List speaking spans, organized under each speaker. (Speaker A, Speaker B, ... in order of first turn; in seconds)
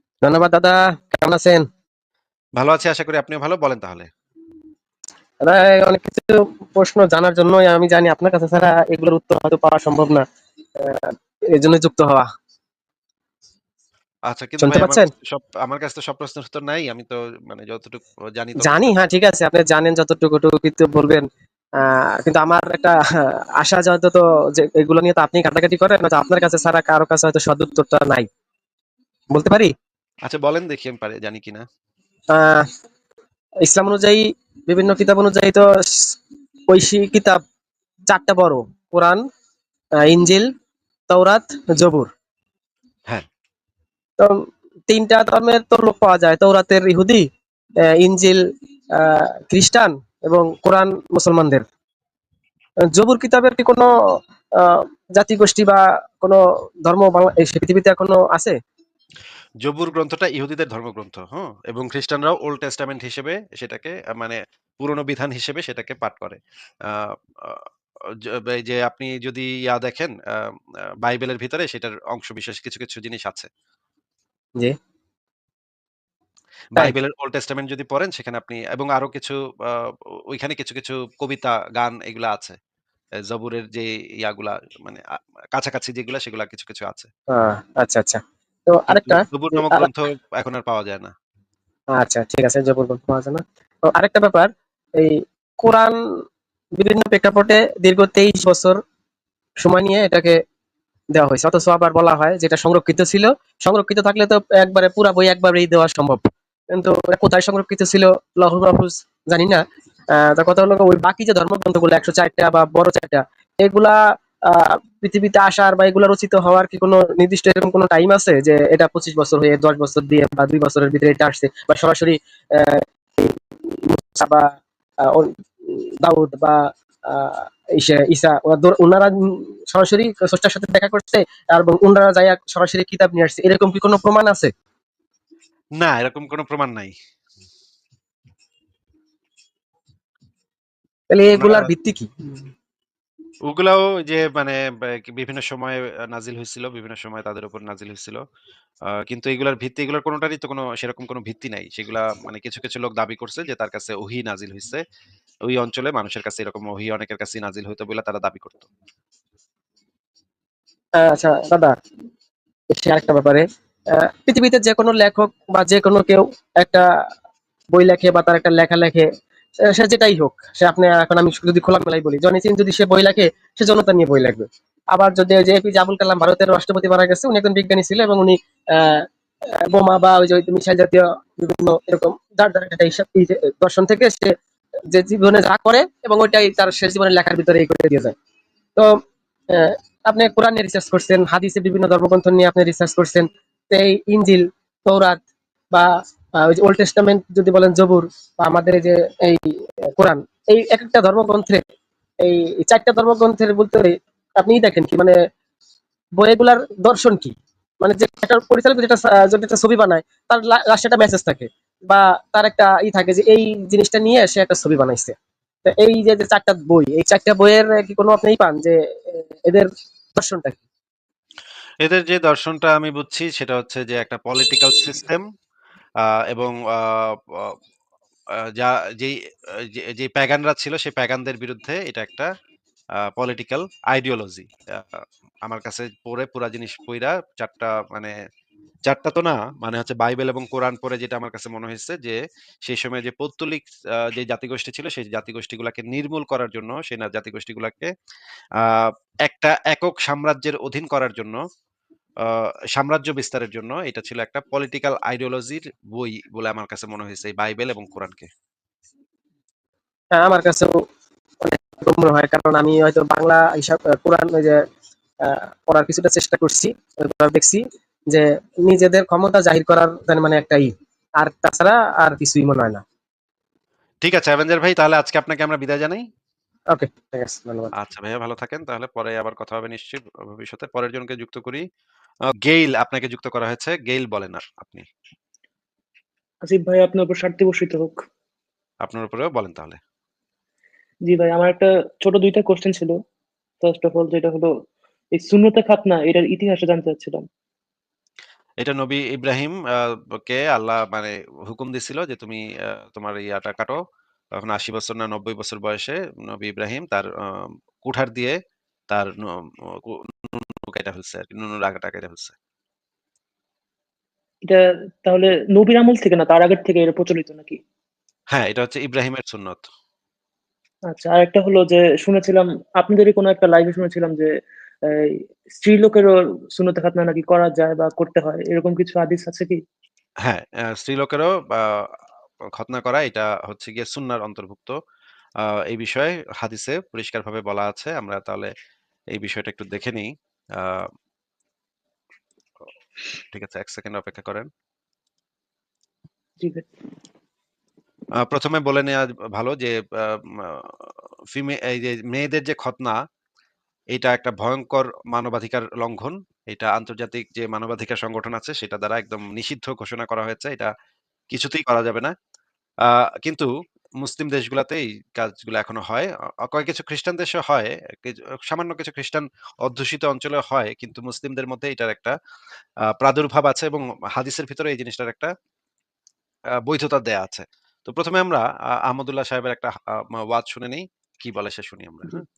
Speaker A: 0.2-1.6, 5.4-10.2, 10.8-12.3, 14.6-15.1, 18.6-21.2, 21.8-28.3, 29.3-29.7, 32.3-32.7, 33.6-36.2, 36.7-37.4, 38.1-39.2, 40.0-40.5, 41.1-42.1, 44.9-47.2, 47.9-48.4, 49.0-51.6, 52.9-53.9, 54.6-58.5, 87.3-89.9, 92.0-96.0, 96.8-98.8, 99.6-100.3, 101.1-109.6, 110.1-114.0, 114.5-124.4, 125.0-134.5, 141.1-142.4, 161.0-161.7, 162.7-166.8, 167.7-169.1, 169.6-179.0, 179.7-184.3, 184.9-188.1, 189.5-195.2, 196.4-199.4, 200.0-201.6, 202.2-205.2, 206.2-220.6, 260.1-260.8, 261.4-264.6, 265.2-270.7, 271.2-272.8, 276.7-277.7
Speaker B: 2.6-4.1, 14.3-18.9, 30.2-31.6, 59.6-67.6, 68.3-70.5, 71.0-73.5, 76.7-82.6, 83.3-85.0, 85.5-87.1, 88.9-91.1, 135.8-136.9, 141.3-141.7, 143.5-148.2, 149.1-154.8, 155.5-158.7, 221.8-225.2, 226.3-227.5, 228.6-232.3, 233.1-238.1, 238.9-247.9, 248.6-251.4, 252.3-258.3, 274.0-276.1, 277.8-281.6, 282.4-284.9, 288.8-289.8, 298.6-303.8, 304.4-308.4, 308.9-312.3, 318.3-319.6, 330.2-331.9, 332.6-334.7, 335.7-338.5, 339.1-340.9, 343.3-344.5, 348.2-353.0, 353.9-360.7, 361.3-362.1, 362.9-363.5, 364.0-372.1, 373.0-375.3, 376.6-382.2
Speaker C: 286.4-288.0, 291.1-292.9, 293.6-294.5, 295.1-297.2, 314.4-317.6, 320.9-324.3, 324.9-329.6, 346.4-346.6